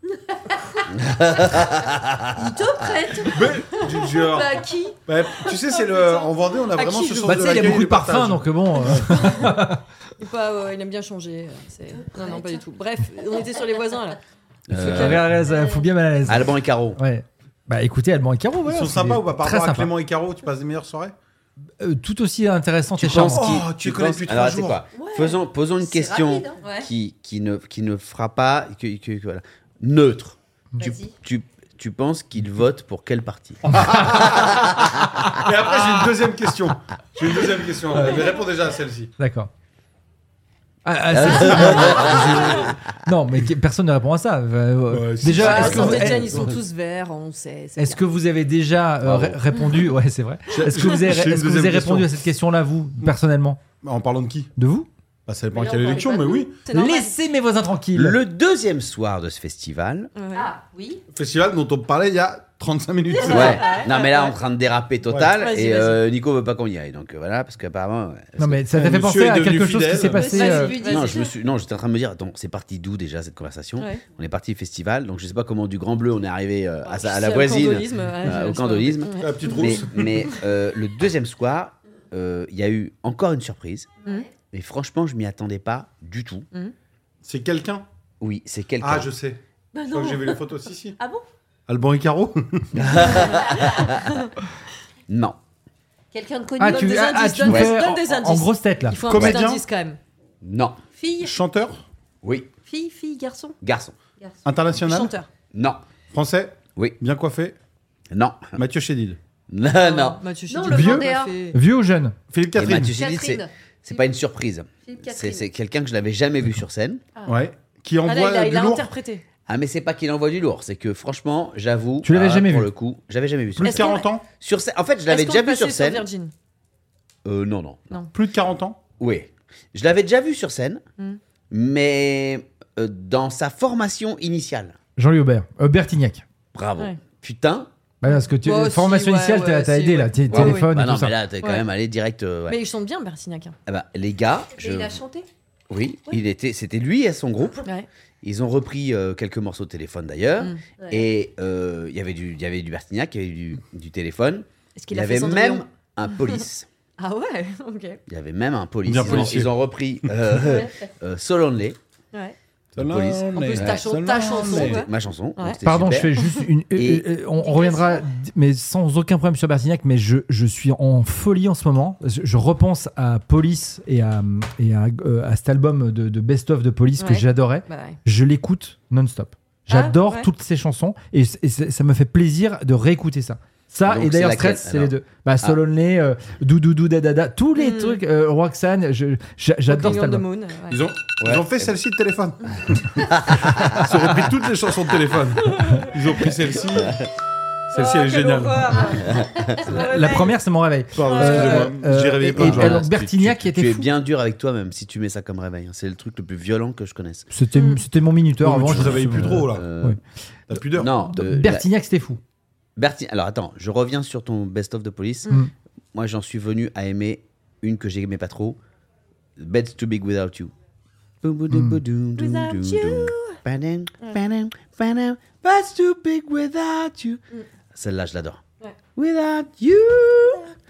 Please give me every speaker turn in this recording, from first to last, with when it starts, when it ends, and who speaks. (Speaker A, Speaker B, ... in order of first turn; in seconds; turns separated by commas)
Speaker A: 0.3-0.9, Speaker B: 0.9-2.5, Speaker A: 1.5-6.3, Speaker C: 3.3-9.5, Speaker D: 6.8-7.5, Speaker E: 7.2-9.8, Speaker D: 9.1-9.5, Speaker D: 10.2-14.2, Speaker A: 12.0-12.6, Speaker B: 14.7-15.3, Speaker D: 14.7-15.3, Speaker E: 14.8-19.9, Speaker A: 15.5-15.8, Speaker B: 16.2-17.0, Speaker C: 18.6-21.1, Speaker E: 21.8-23.6, Speaker B: 23.0-35.2, Speaker C: 23.1-24.8, Speaker A: 24.9-26.8, Speaker A: 30.8-31.1, Speaker C: 33.7-39.1, Speaker E: 33.8-34.1, Speaker E: 37.9-38.2, Speaker E: 39.2-39.5, Speaker E: 40.8-46.5, Speaker B: 41.1-42.7, Speaker C: 41.4-41.8, Speaker C: 44.9-46.3, Speaker D: 45.4-48.0, Speaker B: 45.5-46.1, Speaker E: 47.8-53.6, Speaker B: 49.0-49.4, Speaker C: 50.5-52.1, Speaker C: 53.8-54.5, Speaker E: 54.6-54.9, Speaker C: 55.3-56.6, Speaker A: 55.5-56.5, Speaker D: 56.6-57.1, Speaker E: 56.7-58.2, Speaker B: 57.9-60.1, Speaker D: 60.1-60.5, Speaker A: 60.3-61.0, Speaker C: 61.1-63.8, Speaker A: 63.2-63.8, Speaker D: 63.2-64.3, Speaker B: 63.3-68.6, Speaker D: 65.4-66.0, Speaker E: 68.4-70.7, Speaker C: 68.7-70.3, Speaker A: 70.1-71.3, Speaker D: 70.3-71.3, Speaker B: 70.8-83.9, Speaker D: 73.8-74.0, Speaker D: 76.8-80.4, Speaker C: 79.2-80.3, Speaker A: 84.0-84.3, Speaker B: 84.5-86.5, Speaker C: 87.2-87.8, Speaker B: 88.2-89.1, Speaker C: 88.8-91.0, Speaker A: 89.7-91.2, Speaker C: 91.7-93.0, Speaker B: 92.7-94.1, Speaker D: 93.1-93.5, Speaker A: 93.4-93.8, Speaker B: 95.1-95.4, Speaker A: 96.1-97.3, Speaker E: 96.6-99.0, Speaker D: 96.6-100.0, Speaker B: 97.4-97.8, Speaker C: 99.0-99.6, Speaker B: 99.1-99.4, Speaker B: 100.4-100.8, Speaker A: 101.0-101.4, Speaker C: 101.2-101.8, Speaker B: 102.2-102.5, Speaker A: 102.7-103.6, Speaker B: 103.6-104.0, Speaker C: 104.4-105.2, Speaker D: 104.8-105.3, Speaker B: 105.5-105.8, Speaker C: 106.1-107.6, Speaker B: 108.1-108.6, Speaker C: 108.5-109.2, Speaker B: 109.5-110.2, Speaker D: 109.7-111.6, Speaker A: 110.5-111.3, Speaker E: 110.7-112.2, Speaker C: 112.3-113.0, Speaker B: 112.5-117.0, Speaker A: 112.8-114.0, Speaker A: 114.8-115.5, Speaker C: 117.2-118.9, Speaker D: 118.0-119.2, Speaker B: 119.5-126.0, Speaker E: 122.0-122.7, Speaker C: 123.6-124.2, Speaker D: 123.6-124.0, Speaker D: 125.1-126.3, Speaker B: 127.2-128.0, Speaker C: 128.1-128.8, Speaker B: 129.0-130.8, Speaker B: 131.5-134.8, Speaker E: 135.0-136.2, Speaker B: 136.5-137.7, Speaker E: 138.0-141.2, Speaker D: 138.0-140.7, Speaker B: 140.3-142.6, Speaker D: 142.5-143.6, Speaker B: 143.7-145.0, Speaker A: 144.6-145.3, Speaker B: 145.7-147.6, Speaker B: 148.2-156.7, Speaker A: 150.8-151.1, Speaker D: 154.8-155.6, Speaker D: 157.0-158.0, Speaker B: 158.1-161.8, Speaker C: 158.8-159.5, Speaker D: 160.4-160.7, Speaker A: 160.5-160.7, Speaker C: 162.7-164.8, Speaker B: 162.8-166.2, Speaker D: 163.3-165.6, Speaker E: 165.6-190.2, Speaker B: 166.7-167.1, Speaker A: 167.4-168.0, Speaker D: 177.0-178.0, Speaker D: 179.7-180.3, Speaker B: 183.8-185.6, Speaker D: 187.6-188.0, Speaker D: 189.7-190.8, Speaker C: 190.7-197.0, Speaker B: 191.2-191.7, Speaker B: 193.1-194.0, Speaker D: 195.5-195.9, Speaker B: 196.7-197.1, Speaker C: 197.7-198.8, Speaker D: 197.7-200.4, Speaker B: 199.1-199.7, Speaker E: 199.7-203.9, Speaker C: 200.9-203.0, Speaker D: 201.1-201.7, Speaker B: 202.1-207.3, Speaker E: 207.3-210.0, Speaker D: 207.5-207.8, Speaker C: 208.4-209.7, Speaker B: 208.7-210.0, Speaker C: 210.5-210.9, Speaker E: 210.6-212.2, Speaker B: 210.7-211.7, Speaker B: 212.8-215.3, Speaker B: 215.9-218.6, Speaker B: 219.4-220.5, Speaker B: 221.2-227.2, Speaker E: 221.5-221.8, Speaker D: 222.2-223.3, Speaker B: 227.7-228.4, Speaker B: 228.9-230.4